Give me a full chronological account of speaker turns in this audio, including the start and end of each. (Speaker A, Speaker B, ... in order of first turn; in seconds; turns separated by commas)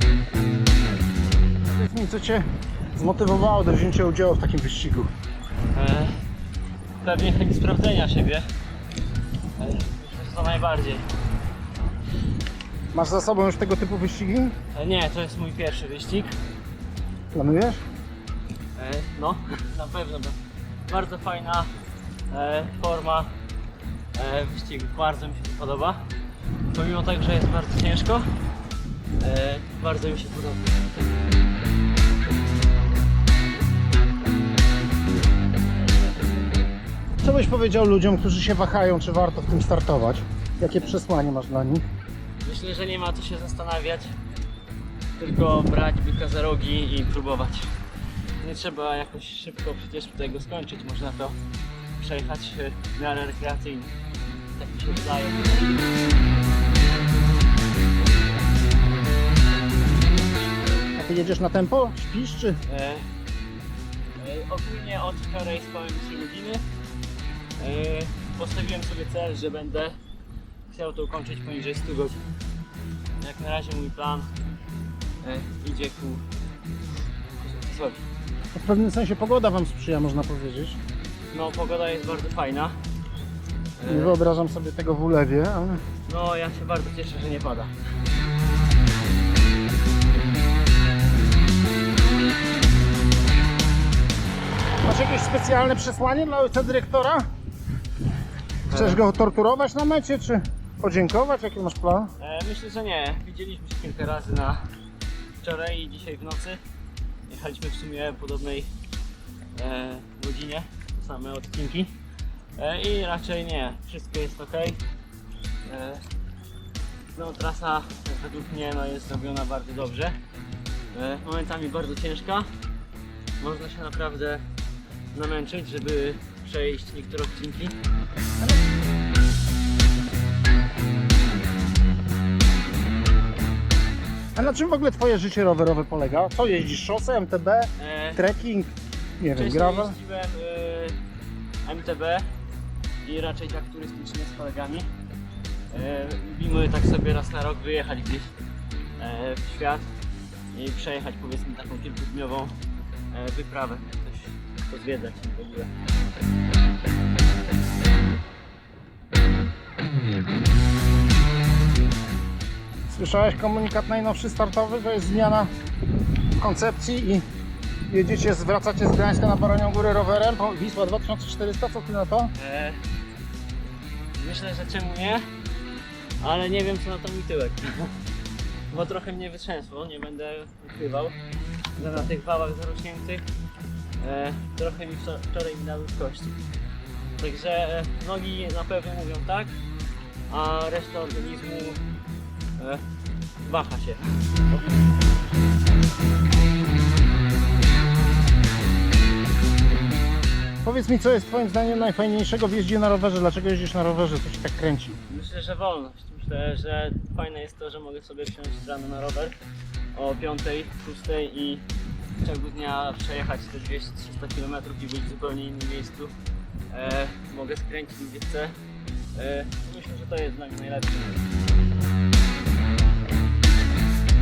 Speaker A: 1.6-5.1, Speaker B: 5.7-6.2, Speaker B: 7.0-8.5, Speaker B: 9.6-11.1, Speaker A: 12.9-14.5, Speaker B: 14.7-16.4, Speaker A: 17.3-17.8, Speaker B: 18.8-21.7, Speaker B: 22.3-23.3, Speaker B: 24.1-26.1, Speaker B: 26.7-28.3, Speaker B: 29.2-30.8, Speaker A: 37.2-41.8, Speaker B: 42.4-44.1, Speaker B: 45.2-47.7, Speaker B: 48.4-51.4, Speaker B: 52.0-53.9, Speaker B: 54.5-55.7, Speaker A: 60.9-62.6, Speaker B: 62.6-63.0, Speaker B: 64.2-66.6, Speaker B: 67.6-70.0, Speaker B: 70.7-72.2, Speaker B: 73.2-74.3, Speaker B: 75.2-76.2, Speaker B: 77.4-78.0, Speaker A: 78.5-80.8, Speaker B: 81.3-82.8, Speaker B: 83.8-84.2, Speaker A: 83.8-85.8, Speaker B: 86.0-87.7, Speaker A: 94.8-97.3, Speaker A: 98.7-102.1, Speaker B: 98.7-99.0, Speaker B: 102.2-104.6, Speaker B: 105.4-106.6, Speaker B: 107.3-108.7, Speaker B: 109.5-112.0, Speaker B: 112.6-114.8, Speaker B: 115.7-116.0, Speaker B: 117.1-120.2, Speaker B: 120.9-122.5, Speaker B: 123.4-124.4, Speaker B: 125.1-127.8, Speaker A: 134.3-140.0, Speaker B: 137.8-138.2, Speaker B: 139.3-141.0, Speaker B: 141.6-142.3, Speaker B: 143.0-144.9, Speaker B: 145.7-148.3, Speaker B: 149.0-149.9, Speaker B: 150.5-152.5, Speaker B: 153.1-155.7, Speaker A: 162.9-165.5, Speaker A: 166.4-167.2, Speaker A: 167.9-172.3, Speaker B: 172.3-172.8, Speaker B: 174.2-175.2, Speaker B: 176.2-177.9, Speaker B: 178.7-181.2, Speaker B: 181.8-183.2, Speaker B: 184.0-186.4, Speaker B: 187.2-189.6, Speaker B: 190.3-191.8, Speaker B: 192.6-192.8, Speaker B: 193.4-194.8, Speaker A: 200.6-205.0, Speaker B: 205.1-209.3, Speaker B: 209.9-211.6, Speaker B: 212.2-216.1, Speaker B: 216.7-218.6, Speaker B: 219.1-221.2